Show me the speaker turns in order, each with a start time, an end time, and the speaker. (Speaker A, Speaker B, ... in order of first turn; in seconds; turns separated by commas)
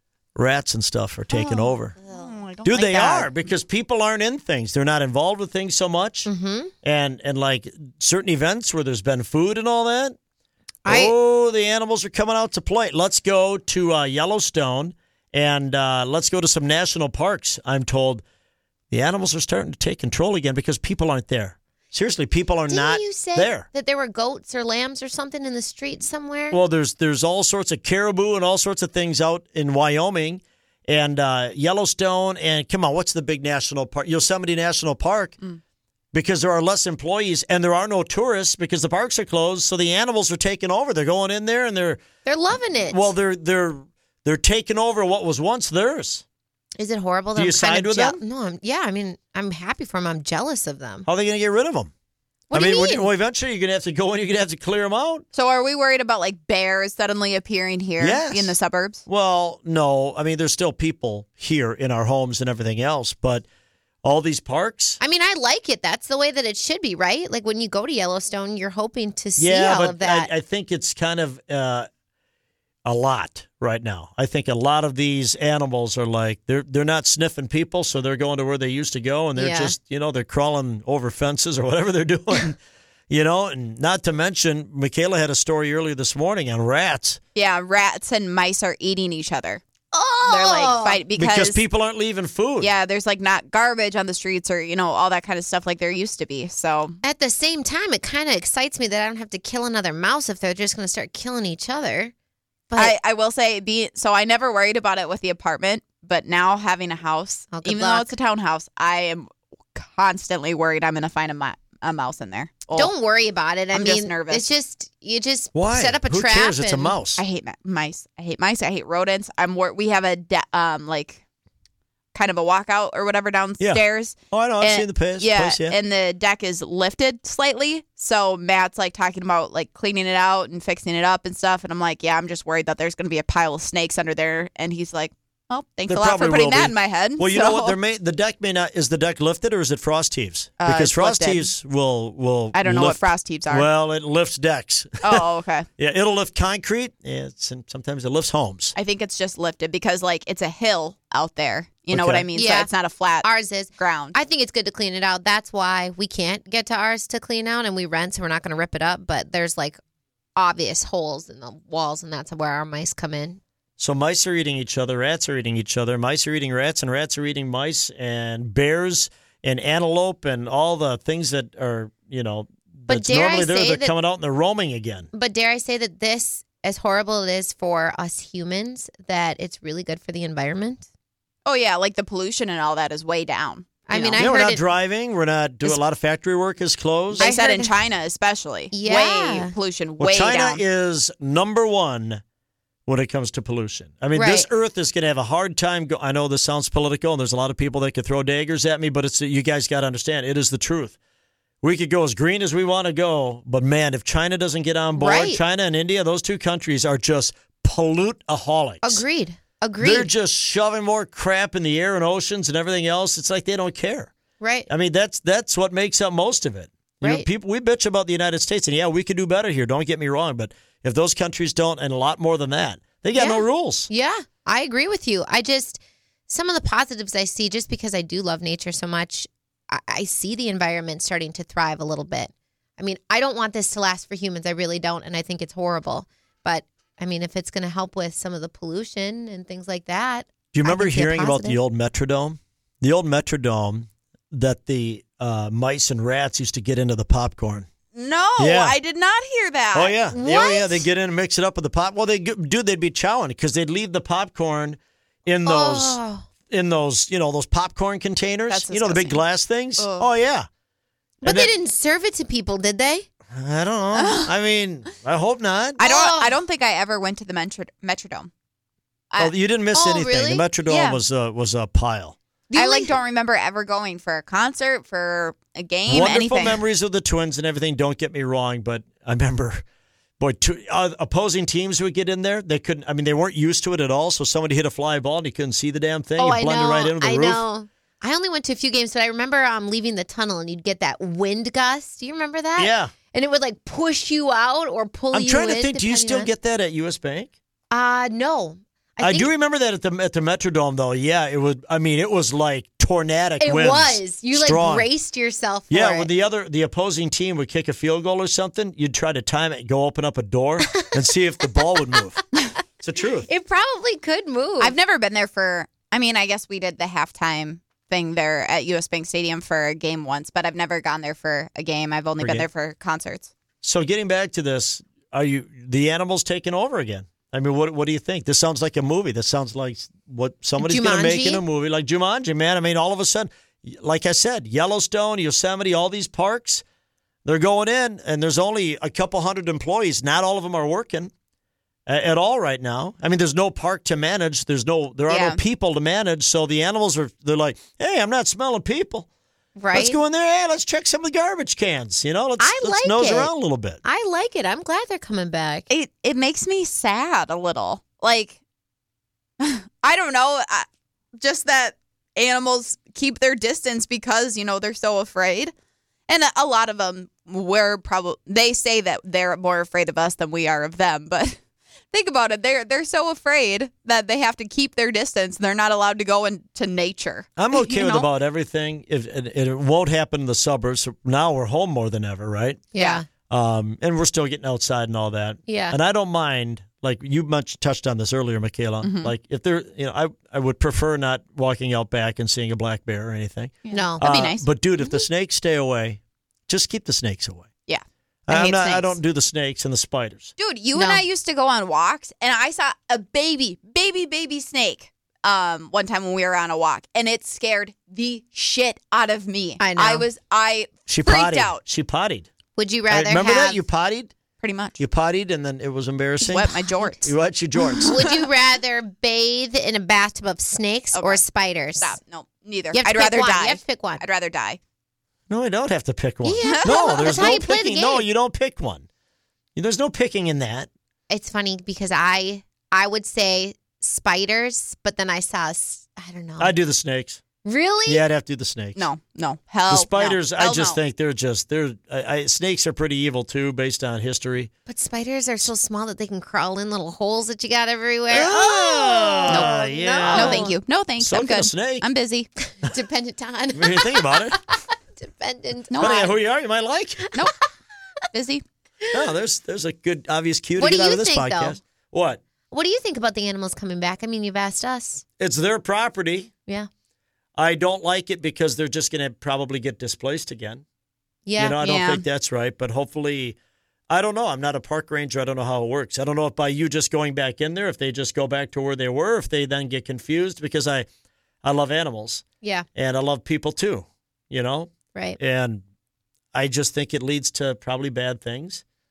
Speaker A: 0.3-1.9, Speaker B: 1.3-3.4, Speaker A: 2.6-6.3, Speaker C: 6.2-6.7, Speaker A: 6.8-10.2, Speaker C: 10.8-11.1, Speaker A: 10.8-18.2, Speaker A: 18.9-23.7, Speaker C: 22.7-26.6, Speaker A: 26.5-35.4, Speaker A: 36.1-42.0, Speaker C: 42.2-43.1, Speaker A: 42.7-46.2, Speaker C: 46.8-51.0, Speaker A: 47.3-48.2, Speaker A: 51.0-51.9, Speaker C: 52.5-53.1, Speaker A: 52.5-55.2, Speaker B: 55.3-59.0, Speaker A: 58.0-58.5, Speaker A: 59.1-63.4, Speaker A: 64.0-65.0, Speaker C: 65.0-70.3, Speaker A: 69.4-71.9, Speaker A: 72.8-82.6, Speaker C: 79.3-79.7, Speaker A: 83.1-87.2, Speaker B: 87.3-89.6, Speaker C: 89.9-91.0, Speaker B: 90.2-91.6, Speaker A: 91.2-92.7, Speaker B: 92.6-97.0, Speaker C: 97.0-102.1, Speaker C: 102.7-102.9, Speaker B: 102.8-112.9, Speaker C: 107.5-108.1, Speaker C: 112.7-117.0, Speaker B: 113.7-114.5, Speaker A: 115.5-117.2, Speaker B: 117.2-121.2, Speaker B: 122.1-137.8, Speaker A: 123.6-125.8, Speaker A: 135.9-145.2, Speaker B: 140.6-141.5, Speaker B: 142.5-143.7, Speaker B: 145.0-145.7, Speaker A: 145.8-148.7, Speaker B: 148.8-154.2, Speaker A: 151.9-152.3, Speaker C: 152.3-152.7, Speaker C: 153.2-159.8, Speaker C: 160.3-163.4, Speaker A: 163.8-175.1, Speaker C: 172.9-173.9, Speaker C: 175.1-180.8, Speaker B: 181.4-184.2, Speaker C: 183.9-184.6, Speaker A: 184.2-187.3, Speaker C: 187.1-187.8, Speaker B: 187.2-190.6, Speaker C: 188.7-189.5, Speaker A: 190.0-192.2, Speaker A: 192.8-200.9, Speaker C: 194.1-194.5, Speaker A: 201.6-209.0, Speaker C: 204.9-205.4, Speaker C: 208.8-210.1, Speaker A: 209.8-214.1, Speaker C: 214.4-214.7, Speaker A: 214.7-223.9, Speaker C: 217.0-217.3, Speaker C: 223.2-241.6, Speaker A: 240.5-247.7, Speaker B: 247.9-249.9, Speaker A: 248.4-248.8, Speaker A: 249.7-260.5, Speaker C: 250.1-250.9, Speaker C: 255.4-256.2, Speaker B: 258.5-259.2, Speaker B: 259.8-260.1, Speaker C: 261.2-263.1, Speaker A: 261.2-261.5, Speaker A: 263.3-265.8, Speaker B: 263.9-264.3, Speaker B: 265.8-268.3, Speaker C: 265.8-266.3, Speaker A: 269.2-272.1, Speaker C: 269.7-270.5, Speaker B: 270.6-271.0, Speaker B: 272.5-276.6, Speaker C: 272.5-272.9, Speaker A: 275.9-279.6, Speaker A: 280.2-287.4, Speaker C: 286.2-296.3, Speaker A: 292.6-292.9, Speaker A: 295.1-297.3, Speaker C: 297.7-299.3, Speaker A: 299.0-304.9, Speaker C: 303.4-306.1, Speaker A: 305.7-312.2, Speaker A: 312.8-313.3, Speaker C: 313.2-314.7, Speaker B: 314.6-323.3, Speaker A: 322.2-322.5, Speaker A: 323.6-336.6, Speaker C: 330.6-331.4, Speaker A: 337.2-341.1, Speaker A: 341.9-349.1, Speaker B: 345.1-345.4, Speaker C: 349.6-350.0, Speaker A: 349.7-353.8, Speaker C: 352.4-353.3, Speaker C: 353.8-355.7, Speaker B: 355.7-358.4, Speaker B: 359.4-360.6, Speaker B: 361.2-365.5, Speaker B: 366.1-371.4, Speaker B: 371.9-378.1, Speaker A: 377.4-382.6, Speaker C: 382.7-383.1, Speaker B: 382.7-383.0, Speaker A: 383.3-397.5, Speaker C: 385.5-385.8, Speaker B: 388.8-389.1, Speaker B: 393.6-394.5, Speaker C: 393.7-394.0, Speaker B: 397.7-399.0, Speaker A: 398.3-400.3, Speaker B: 400.4-411.6, Speaker C: 400.7-401.0, Speaker C: 409.6-410.1, Speaker A: 410.9-412.3, Speaker C: 412.6-413.6, Speaker A: 412.9-414.1, Speaker B: 414.4-414.8, Speaker A: 414.8-418.0, Speaker B: 416.2-417.1, Speaker B: 417.7-418.3, Speaker C: 417.8-422.0, Speaker B: 420.9-421.2, Speaker B: 421.8-424.6, Speaker C: 422.7-424.0, Speaker A: 425.3-428.8, Speaker C: 426.2-428.1, Speaker B: 426.4-427.2, Speaker A: 429.5-430.7, Speaker C: 431.1-436.5, Speaker A: 436.4-437.2, Speaker C: 437.4-438.0, Speaker A: 437.9-438.9, Speaker B: 438.8-440.8, Speaker A: 439.7-444.5, Speaker C: 444.7-450.6, Speaker A: 448.1-451.9, Speaker B: 449.3-449.5, Speaker B: 450.1-452.3, Speaker C: 452.5-454.3, Speaker A: 453.5-454.4, Speaker C: 455.0-456.2, Speaker B: 455.7-456.1, Speaker A: 455.7-457.1, Speaker C: 457.0-457.3, Speaker B: 458.1-458.4, Speaker C: 458.8-459.1, Speaker A: 458.9-462.2, Speaker C: 460.6-461.6, Speaker C: 462.5-465.0, Speaker A: 465.2-466.3, Speaker A: 467.4-470.6, Speaker C: 471.2-471.6, Speaker A: 471.4-473.4, Speaker B: 471.6-472.0, Speaker A: 473.9-480.9, Speaker A: 481.4-482.2, Speaker A: 482.7-485.6, Speaker A: 486.3-488.6